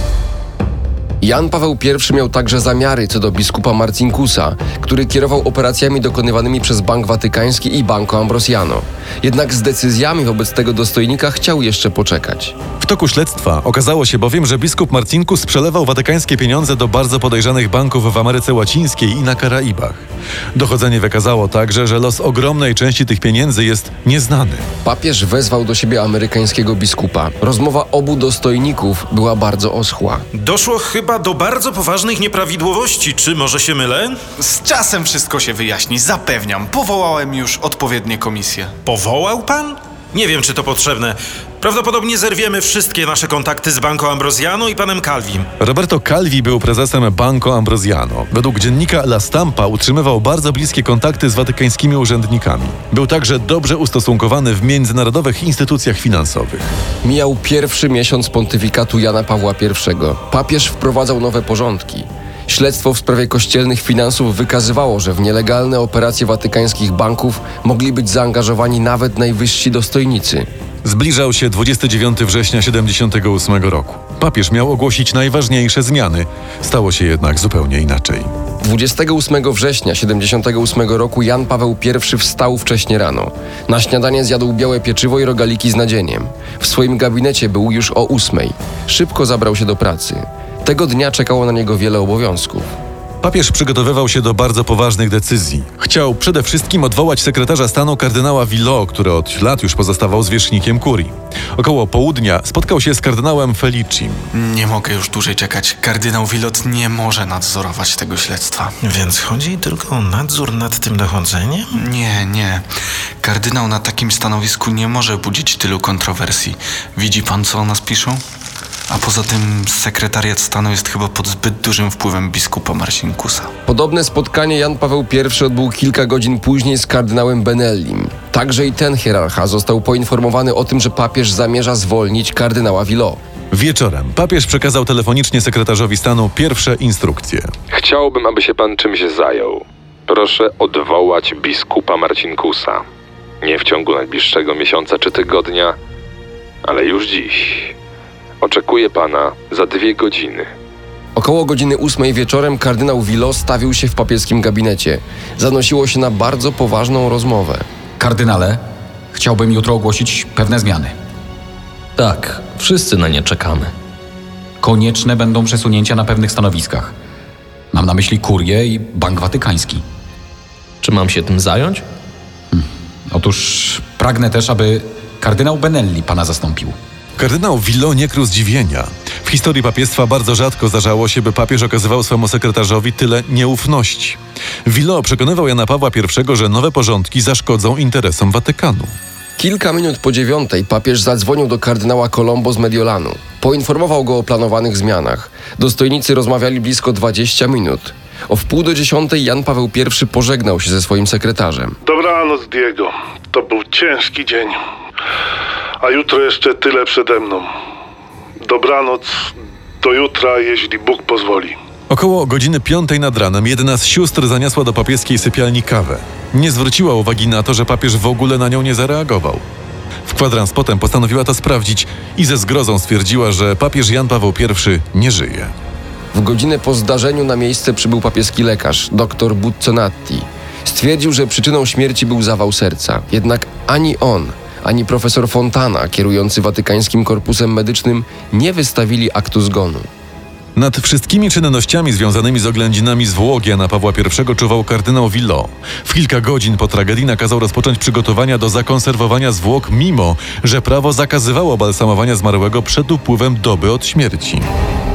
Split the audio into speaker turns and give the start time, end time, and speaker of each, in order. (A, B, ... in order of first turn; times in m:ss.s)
0:01.2-0:12.5 A
0:12.8-0:20.0 B
0:20.5-0:24.7 B
0:24.8-0:30.2 A
0:30.4-0:34.2 C
0:34.4-0:38.7 D
0:38.8-0:45.5 C
0:45.6-0:56.7 B
0:57.0-1:10.5 A
1:10.8-1:18.3 B
1:18.6-1:32.7 A
1:33.2-1:44.2 B
1:44.3-1:48.7 D
1:48.8-1:51.7 C
1:51.7-1:52.6 D
1:53.2-1:58.2 D
1:58.9-2:03.5 D
2:03.6-2:13.2 A
2:13.5-2:17.5 B
2:17.7-2:22.8 E
2:23.4-2:25.8 E
2:26.6-2:27.7 E
2:28.4-2:30.5 E
2:31.2-2:37.6 A
2:38.0-2:38.6 F
2:39.1-2:40.9 F
2:42.0-2:43.7 G
2:44.6-2:46.9 F
2:47.7-2:49.8 F
2:50.8-2:51.8 G
2:52.5-2:56.7 F
2:57.2-3:08.9 B
3:09.4-3:21.8 A
3:21.8-3:24.6 H
3:25.8-3:27.4 H
3:28.5-3:29.1 H
3:29.8-3:31.5 H
3:31.9-3:39.4 B
3:40.0-3:45.5 B
3:46.1-3:59.9 A
4:00.6-4:14.5 B